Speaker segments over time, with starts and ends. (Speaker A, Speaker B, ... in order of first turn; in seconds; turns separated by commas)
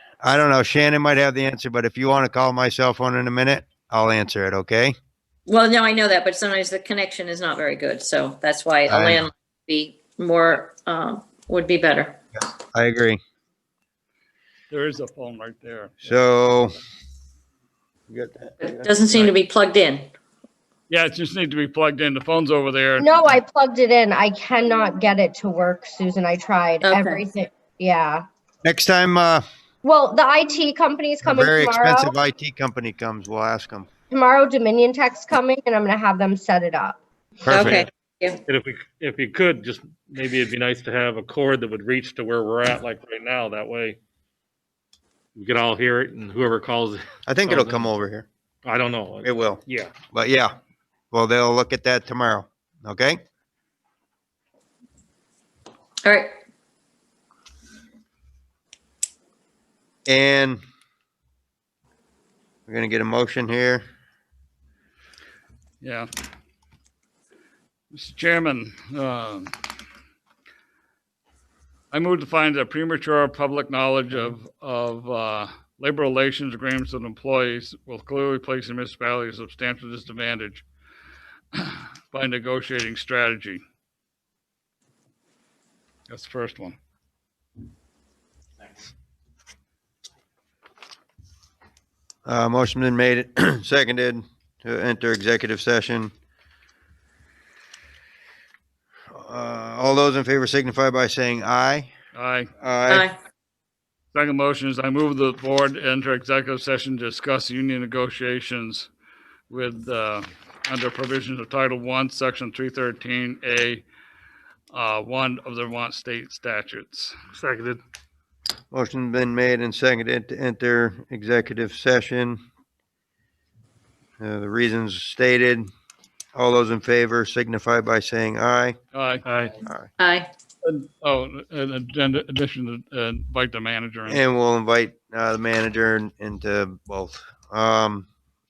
Speaker A: 0.2-5.0, Speaker B: 5.5-12.2, Speaker A: 8.9-9.3, Speaker A: 12.4-13.2, Speaker C: 14.7-16.1, Speaker A: 16.0-16.8, Speaker A: 18.1-18.9, Speaker B: 18.6-20.1, Speaker C: 20.9-23.4, Speaker D: 23.0-28.2, Speaker B: 26.8-27.2, Speaker A: 28.6-29.4, Speaker D: 29.8-32.1, Speaker A: 31.2-33.9, Speaker D: 34.1-37.0, Speaker A: 37.5-37.9, Speaker B: 37.5-38.4, Speaker E: 38.5-44.0, Speaker E: 45.4-47.9, Speaker A: 47.3-48.3, Speaker E: 48.6-49.9, Speaker A: 49.2-49.6, Speaker A: 50.1-50.5, Speaker A: 51.1-53.2, Speaker B: 56.0-56.4, Speaker A: 60.1-60.6, Speaker A: 62.7-63.8, Speaker C: 65.8-66.1, Speaker C: 67.9-69.5, Speaker C: 71.9-80.7, Speaker C: 81.5-83.6, Speaker C: 86.1-86.8, Speaker A: 92.3-96.1, Speaker A: 99.1-101.9, Speaker C: 102.2-102.5, Speaker A: 102.6-103.1, Speaker B: 102.9-103.2, Speaker C: 104.1-108.9, Speaker C: 109.5-113.8, Speaker C: 114.7-117.1, Speaker E: 117.4-117.8, Speaker A: 118.7-122.4, Speaker A: 124.2-125.7, Speaker A: 126.3-128.8, Speaker C: 128.9-129.2, Speaker A: 129.6-129.9, Speaker B: 130.0-130.3, Speaker C: 130.6-134.2, Speaker A: 134.1-138.1